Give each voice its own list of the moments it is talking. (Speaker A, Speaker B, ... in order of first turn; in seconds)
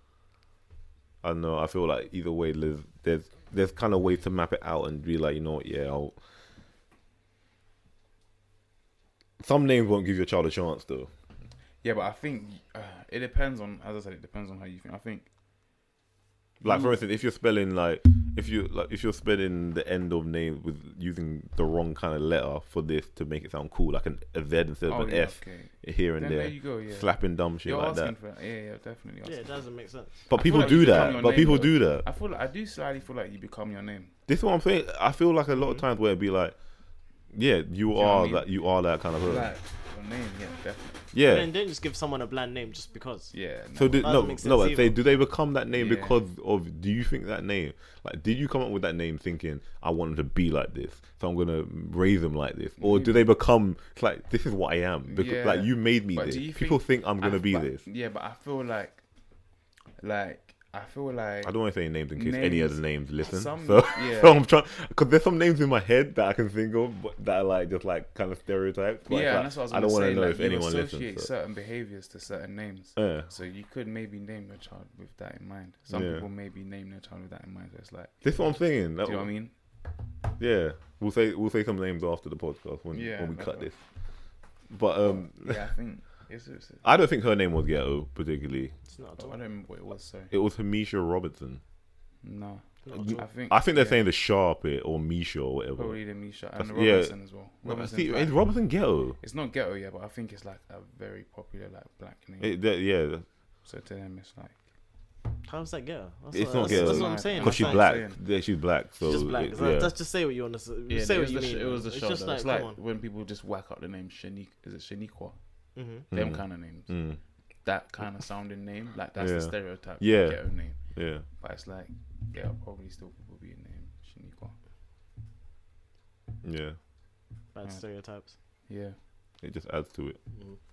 Speaker A: 1.2-6.2, 9.4-11.1, 16.6-28.1, 30.3-32.0, 34.3-36.5, 37.3-39.5, 41.1-41.5, 43.7-57.8, 61.4-71.3, 73.0-73.3, 75.9-76.2, 78.2-79.3, 80.4-83.8, 84.7-85.6, 86.8-88.7, 90.3-91.6, 92.9-96.0, 96.5-99.2, 102.4-103.2, 106.3-109.9, 116.1-117.2, 119.2-121.2, 126.4-126.8, 129.4-130.2
Speaker B: 11.8-15.3, 16.6-17.0, 24.8-29.5, 30.3-34.1, 37.9-38.5, 39.2-41.1, 43.3-44.2, 45.7-46.2, 52.8-53.2, 55.0-59.0, 60.0-61.5, 62.1-64.4, 69.1-79.5, 82.9-83.8, 85.0-86.9, 89.2-90.3, 92.2-94.0, 95.7-98.6, 99.2-102.6, 103.6-104.6, 106.6-108.2, 110.9-115.3, 116.1-117.0, 117.6-120.8, 121.3-124.5, 128.7-129.0
Speaker C: 29.2-31.2, 35.6-35.8, 41.2-43.4, 44.0-44.9, 88.9-89.3, 92.8-93.2, 105.4-108.0, 109.0-112.7, 115.7-116.0, 127.5-128.3